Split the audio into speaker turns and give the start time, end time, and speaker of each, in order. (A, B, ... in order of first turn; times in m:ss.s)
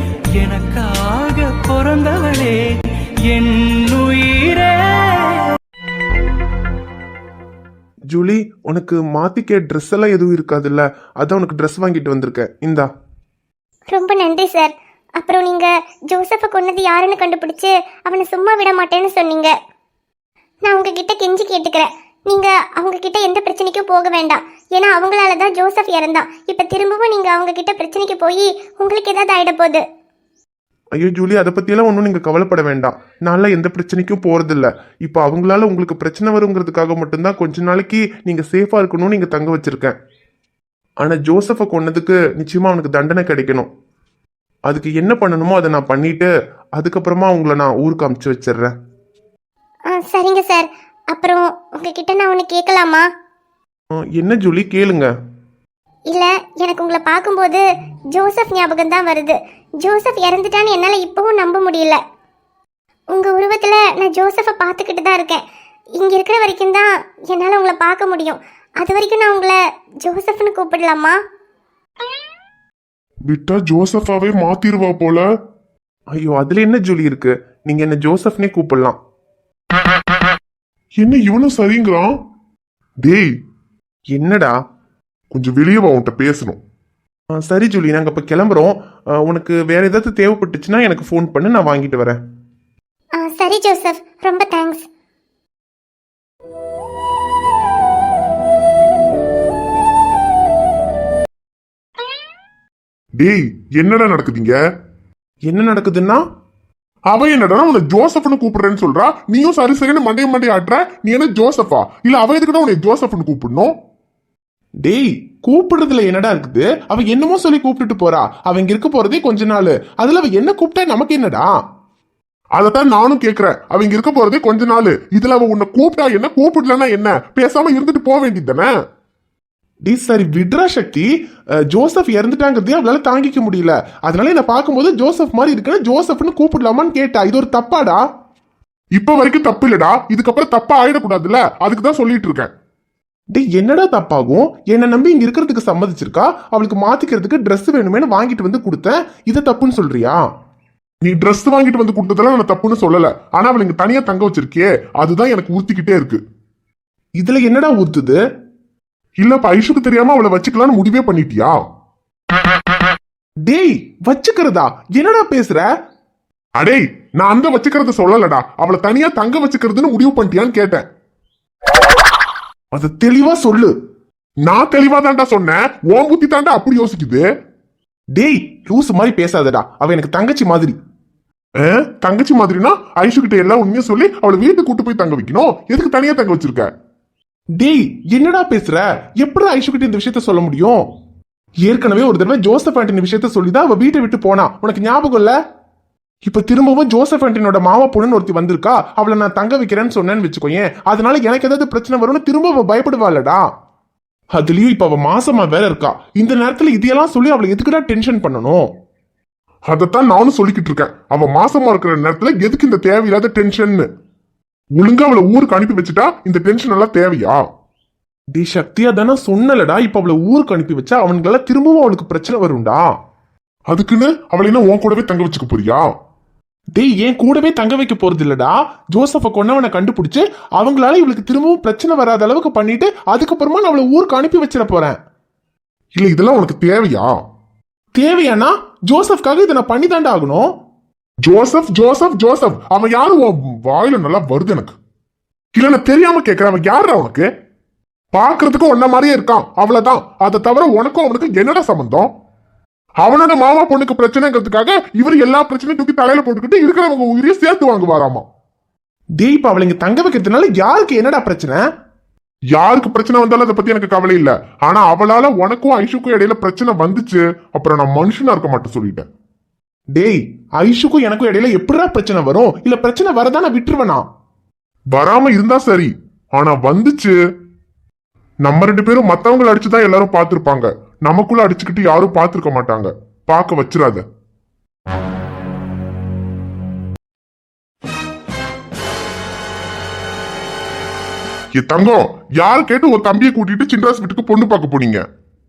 0:00.4-0:05.4 A
0:08.1-0:12.9 B
0:13.9-0:19.5 C
0:20.6-0:29.8 C
0:31.0-0:40.0 B
0:41.0-0:43.7 B
0:44.7-0:48.7 B
0:49.9-0:53.1 C
0:54.2-0:55.1 B
0:56.1-1:02.0 C
1:03.1-1:05.4 C
1:06.0-1:11.2 C
1:13.3-1:15.2 D
1:16.2-1:19.0 B
1:21.0-1:22.2 D
1:23.0-1:23.3 D
1:24.1-1:24.5 B
1:25.3-1:26.6 D
1:27.4-1:32.2 B
1:33.2-1:34.9 C
1:43.2-1:44.6 D
1:45.5-1:46.2 B
1:47.1-1:53.7 D
1:54.8-2:01.5 B
2:02.5-2:08.7 D
2:09.9-2:11.1 B
2:11.6-2:18.0 B
2:18.9-2:22.5 D
2:23.3-2:30.2 B
2:31.0-2:36.2 D
2:37.2-2:38.2 B
2:39.2-2:41.6 D
2:43.5-2:45.7 B
2:46.6-2:50.8 D
2:52.7-2:53.7 B
2:54.4-2:57.2 D
2:58.2-3:00.7 B
3:01.6-3:06.7 D
3:07.6-3:10.8 B
3:11.6-3:15.3 B
3:16.2-3:23.4 B
3:24.3-3:28.6 B
3:29.7-3:33.9 D
3:34.7-3:37.4 D
3:38.3-3:42.8 B
3:43.7-3:45.9 D
3:46.8-3:55.0 B
3:55.9-3:57.1 D
3:57.9-4:00.5 B
4:01.3-4:04.7 D
4:01.7-4:02.4 B
4:05.5-4:07.2 D
4:08.1-4:12.1 D
4:13.0-4:18.2 D
4:19.2-4:21.6 B
4:22.5-4:29.0 D
4:29.9-4:34.0 B
4:34.9-4:37.1 D
4:38.4-4:44.0 D
4:51.5-4:55.0 D